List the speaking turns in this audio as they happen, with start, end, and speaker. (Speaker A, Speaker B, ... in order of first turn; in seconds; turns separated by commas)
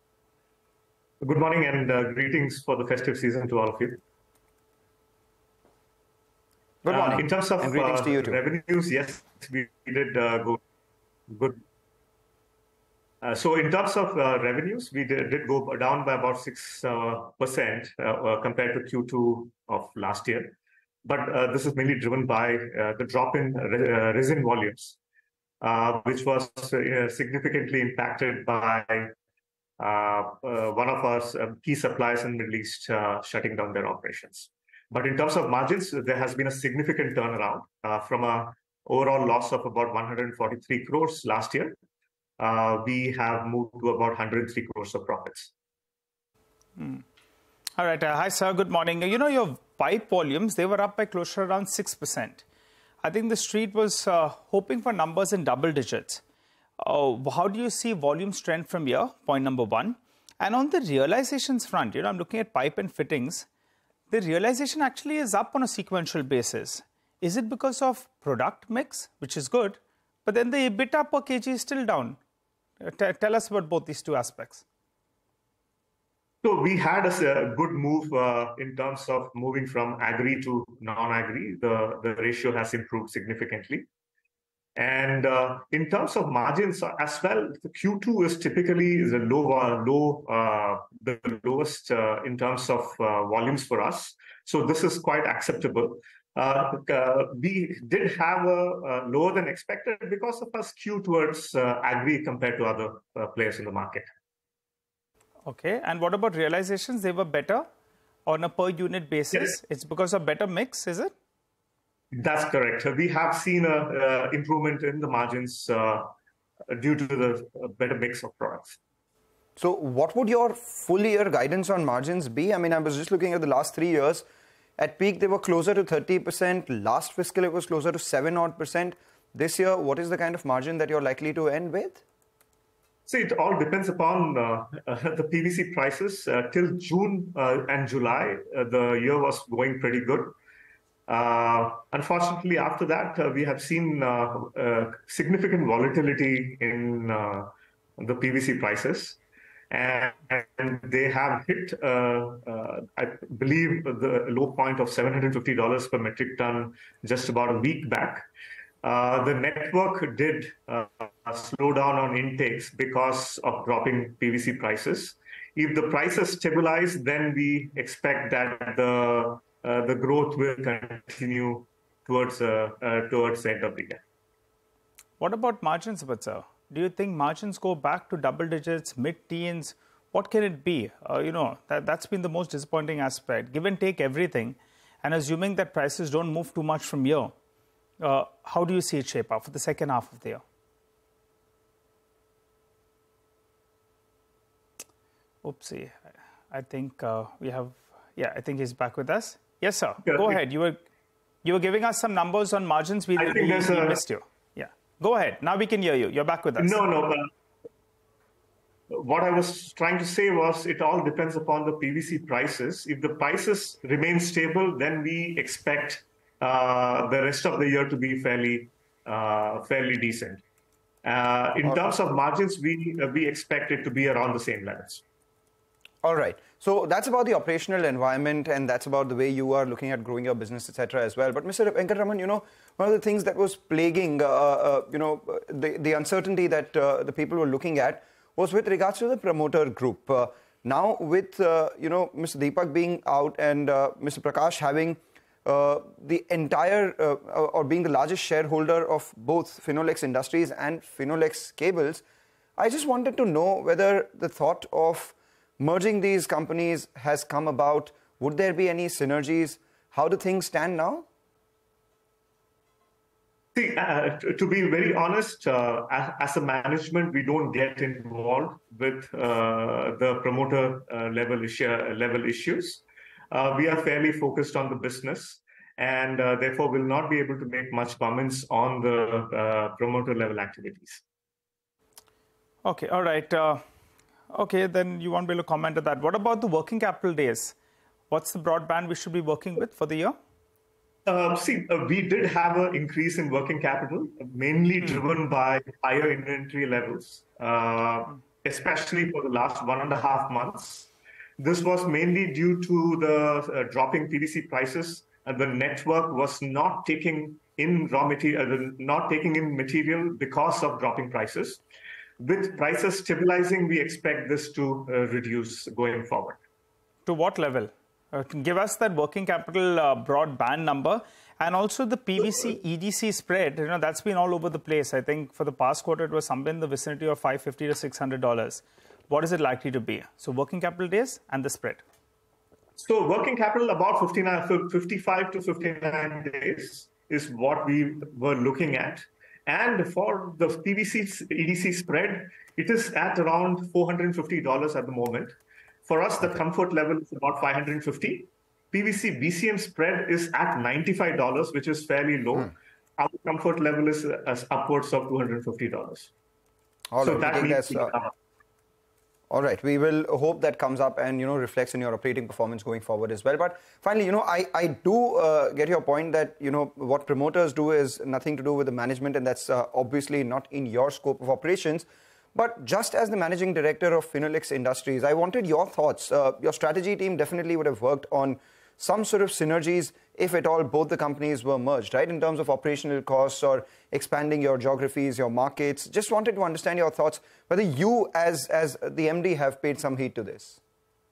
Speaker A: 1.2-4.0, Speaker B: 6.8-8.4, Speaker A: 6.9-10.6, Speaker A: 11.3-11.6, Speaker A: 13.2-25.0, Speaker A: 25.6-29.1, Speaker A: 29.8-41.7, Speaker A: 42.4-45.5, Speaker C: 46.8-47.0, Speaker C: 47.8-52.4, Speaker C: 53.0-56.2, Speaker C: 56.8-63.5, Speaker C: 64.1-72.2, Speaker C: 72.8-74.6, Speaker A: 76.4-83.9, Speaker A: 84.8-104.1, Speaker C: 105.4-107.7, Speaker C: 108.2-111.1, Speaker A: 112.1-116.1, Speaker A: 116.7-118.8, Speaker B: 119.6-124.2, Speaker B: 124.8-132.0, Speaker A: 133.1-140.3, Speaker A: 141.1-149.2, Speaker A: 149.7-158.2, Speaker A: 158.8-174.0, Speaker C: 175.2-187.3, Speaker C: 188.0-190.4, Speaker C: 195.4-200.8, Speaker A: 200.0-200.4, Speaker C: 201.4-206.8, Speaker A: 203.2-204.0, Speaker A: 206.6-207.3, Speaker A: 208.9-220.4, Speaker A: 221.0-225.0, Speaker B: 226.0-252.0, Speaker B: 252.6-261.1, Speaker A: 263.5-281.0, Speaker C: 282.6-283.6, Speaker C: 284.3-287.5, Speaker C: 288.1-290.2, Speaker A: 291.1-311.6, Speaker A: 312.2-316.4, Speaker C: 317.1-331.8, Speaker A: 332.8-345.3, Speaker A: 345.9-356.1, Speaker B: 356.9-357.9, Speaker A: 357.0-358.1, Speaker B: 359.3-390.6